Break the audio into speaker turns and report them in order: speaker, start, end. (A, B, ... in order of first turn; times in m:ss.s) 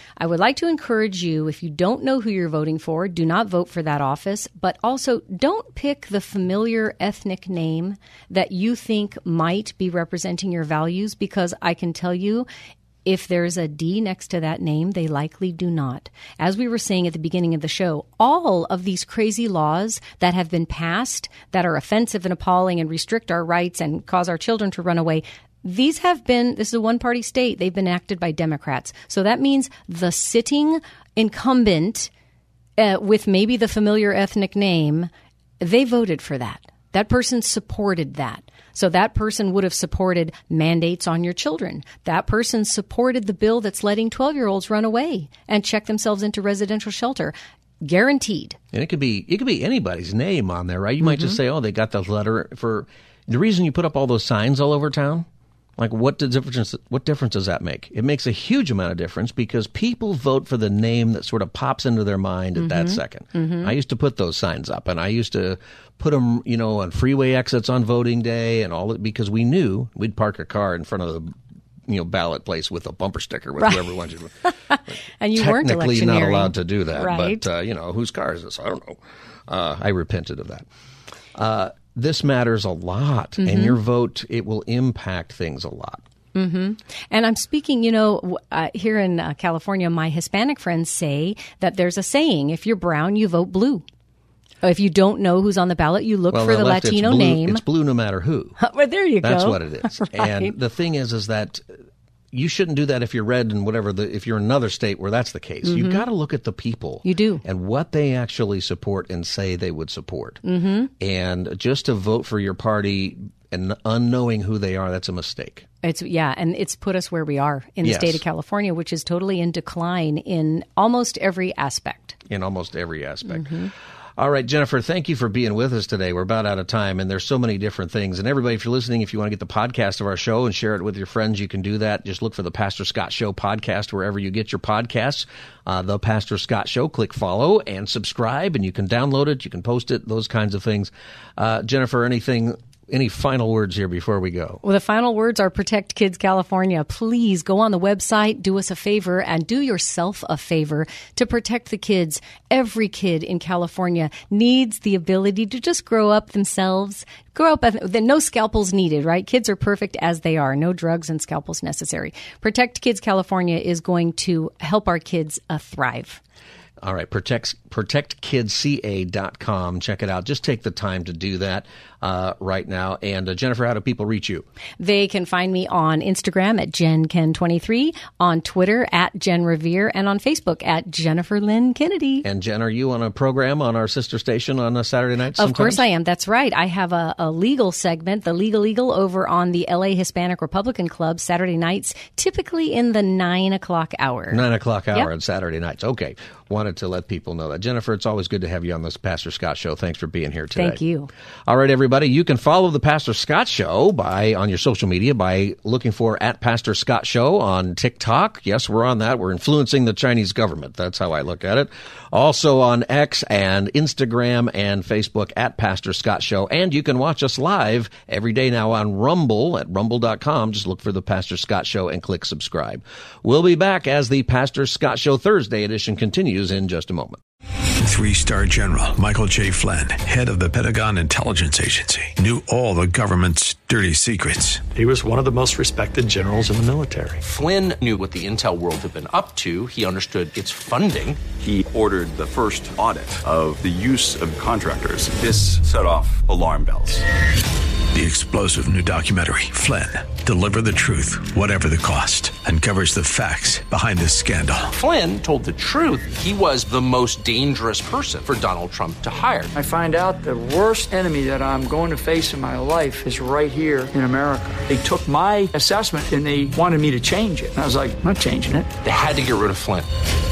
0:00.2-0:12.5 A
0:13.0-0:32.1 A
0:32.8-0:48.6 A
0:48.7-1:11.4 B
0:51.0-0:51.4 A
1:02.6-1:03.7 A
1:11.9-1:14.4 B
1:14.7-1:17.4 A
1:14.9-1:20.7 B
1:21.3-1:26.0 B
1:23.4-1:23.8 A
1:26.4-1:33.8 A
1:34.6-1:37.6 A
1:36.3-1:38.6 B
1:38.6-1:40.5 A
1:39.2-1:41.7 B
1:42.3-1:50.4 B
1:45.6-1:46.1 A
1:47.0-1:47.4 A
1:50.4-1:50.9 A
1:51.0-1:55.7 B
1:55.8-2:02.2 A
1:57.8-1:58.2 B
2:02.3-2:24.6 B
2:03.3-2:03.7 A
2:24.6-2:46.2 A
2:46.8-2:54.5 B
2:54.8-3:02.2 A
3:02.2-3:05.8 B
3:05.4-3:15.1 A
3:14.3-3:20.8 B
3:20.6-3:21.1 A
3:21.5-3:47.2 B
3:47.8-3:54.6 C
3:54.7-3:57.2 D
3:57.2-4:01.3 E
4:01.3-4:07.0 F
4:07.9-4:14.7 C
4:14.7-4:19.5 E
4:19.5-4:28.7 G
4:28.8-4:29.9 E